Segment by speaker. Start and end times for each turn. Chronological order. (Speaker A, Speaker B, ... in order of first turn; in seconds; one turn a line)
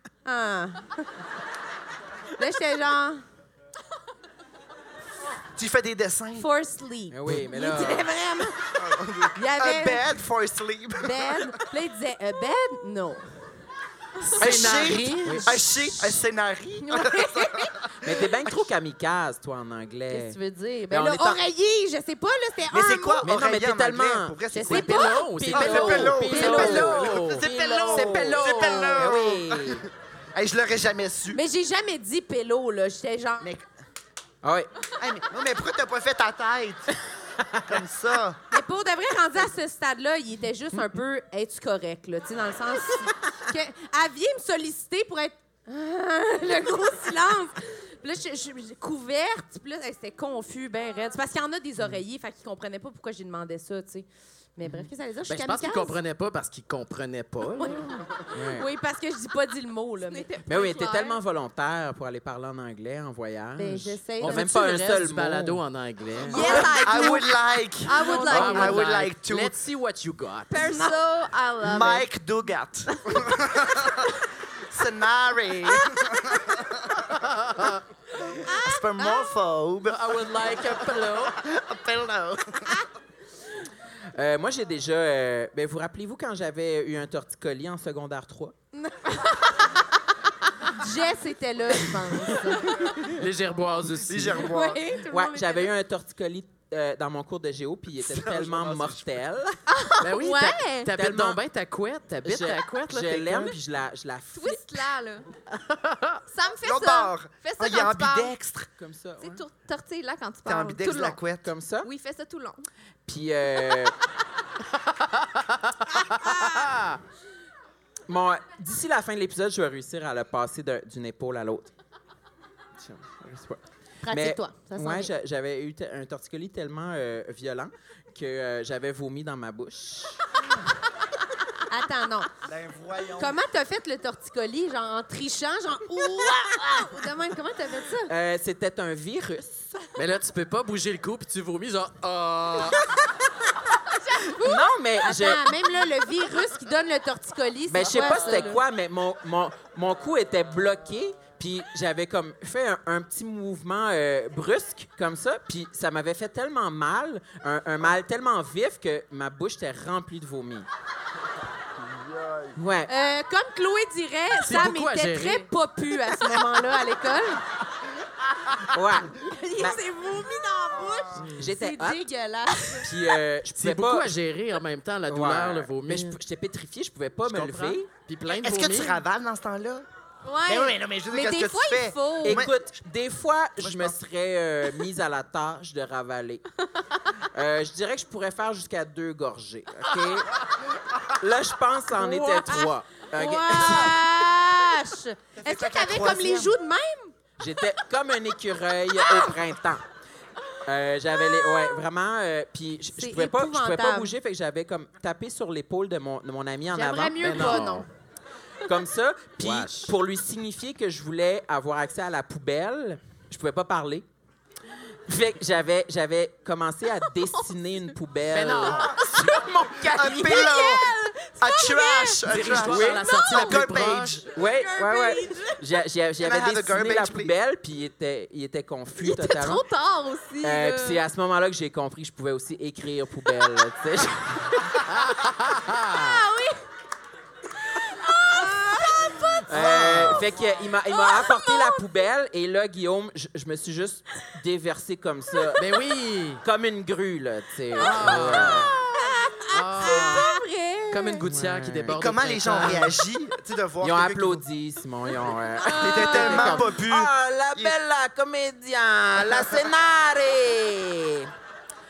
Speaker A: 0.2-1.1
Speaker A: 2.4-3.2
Speaker B: 5.5-6.5
Speaker A: 6.3-8.7
Speaker C: 7.1-8.1
Speaker B: 8.7-11.5
Speaker A: 9.3-10.1
Speaker A: 11.0-13.3
Speaker D: 14.3-15.5
Speaker B: 14.4-17.9
Speaker A: 15.3-16.1
Speaker A: 16.8-17.7
Speaker C: 18.0-20.4
Speaker A: 20.1-23.3
Speaker C: 20.9-21.4
Speaker B: 22.7-31.4
Speaker C: 23.2-24.4
Speaker A: 24.5-29.0
Speaker D: 24.6-28.9
Speaker C: 25.6-27.0
Speaker C: 27.9-29.9
Speaker A: 31.3-33.5
Speaker B: 33.4-33.7
Speaker C: 34.4-34.7
Speaker B: 35.0-36.9
Speaker B: 37.7-38.4
Speaker A: 38.5-56.0
Speaker D: 55.2-58.0
Speaker A: 57.6-57.9
Speaker C: 58.3-58.7
Speaker A: 58.5-60.3
Speaker E: 60.0-61.2
Speaker C: 60.5-65.6
Speaker A: 63.6-64.9
Speaker D: 64.2-66.8
Speaker E: 66.2-67.3
Speaker A: 66.3-67.2
Speaker B: 66.6-69.5
Speaker E: 67.8-68.8
Speaker D: 68.0-70.9
Speaker E: 70.5-72.1
Speaker B: 71.6-74.1
Speaker B: 74.7-77.2
Speaker D: 77.2-77.8
Speaker B: 78.4-82.8
Speaker D: 79.9-81.4
Speaker C: 84.1-88.5
Speaker A: 88.7-89.7
Speaker A: 90.7-93.0
Speaker D: 93.0-94.5
Speaker B: 94.0-94.8
Speaker A: 94.3-95.7
Speaker C: 95.0-99.6
Speaker B: 98.0-99.2
Speaker E: 99.7-100.9
Speaker D: 100.0-103.5
Speaker C: 100.9-101.4
Speaker C: 102.2-104.9
Speaker E: 104.3-105.2
Speaker D: 105.5-106.2
Speaker E: 106.3-108.3
Speaker B: 106.6-108.7
Speaker C: 108.8-109.4
Speaker E: 109.2-111.2
Speaker B: 110.4-111.5
Speaker C: 111.4-111.9
Speaker E: 111.8-112.7
Speaker C: 113.0-113.9
Speaker D: 114.7-117.0
Speaker C: 118.1-121.7
Speaker C: 122.8-130.2
Speaker A: 124.0-125.1
Speaker A: 131.7-132.3
Speaker B: 132.4-133.4
Speaker A: 133.2-138.1
Speaker C: 138.1-139.8
Speaker D: 139.9-142.8
Speaker C: 144.4-145.4
Speaker A: 145.0-148.6
Speaker C: 147.7-160.7
Speaker B: 162.1-162.5
Speaker C: 162.6-162.9
Speaker A: 162.9-167.4
Speaker D: 164.4-165.5
Speaker C: 168.7-169.8
Speaker A: 169.3-172.9
Speaker B: 170.7-171.3
Speaker D: 171.2-171.4
Speaker C: 171.3-172.0
Speaker C: 172.8-174.2
Speaker D: 173.5-176.2
Speaker C: 175.1-177.9
Speaker D: 177.2-179.0
Speaker B: 178.3-179.8
Speaker E: 180.2-180.8
Speaker B: 180.4-182.7
Speaker A: 181.1-182.4
Speaker C: 182.2-186.5
Speaker B: 183.6-184.0
Speaker C: 187.3-190.4
Speaker C: 191.2-194.0
Speaker A: 191.9-197.1
Speaker B: 195.4-196.5
Speaker C: 197.4-199.8
Speaker C: 200.6-207.6
Speaker A: 202.9-204.1
Speaker A: 206.7-207.9
Speaker D: 207.2-207.9
Speaker C: 208.6-214.1
Speaker D: 209.4-209.9
Speaker C: 215.1-220.2
Speaker D: 218.3-219.1
Speaker E: 219.1-219.4
Speaker B: 219.8-224.3
Speaker E: 220.1-222.2
Speaker D: 222.2-224.2
Speaker C: 222.5-223.1
Speaker E: 223.0-223.6
Speaker C: 224.3-229.6
Speaker E: 224.4-225.5
Speaker B: 226.2-227.3
Speaker E: 229.0-231.0
Speaker C: 230.4-234.8
Speaker D: 234.9-236.2
Speaker E: 235.9-236.6
Speaker E: 237.8-239.4
Speaker A: 238.3-239.4
Speaker C: 239.4-245.7
Speaker D: 239.5-240.2
Speaker B: 239.7-240.1
Speaker E: 240.9-241.8
Speaker D: 245.6-246.4
Speaker C: 246.4-248.7
Speaker D: 247.8-248.7
Speaker A: 247.9-251.2
Speaker D: 249.5-250.3
Speaker E: 250.0-250.4
Speaker D: 250.9-252.9
Speaker C: 251.3-252.0
Speaker B: 251.9-254.4
Speaker C: 253.8-261.3
Speaker A: 255.7-256.4
Speaker B: 255.8-257.8
Speaker D: 256.1-256.5
Speaker B: 259.2-259.6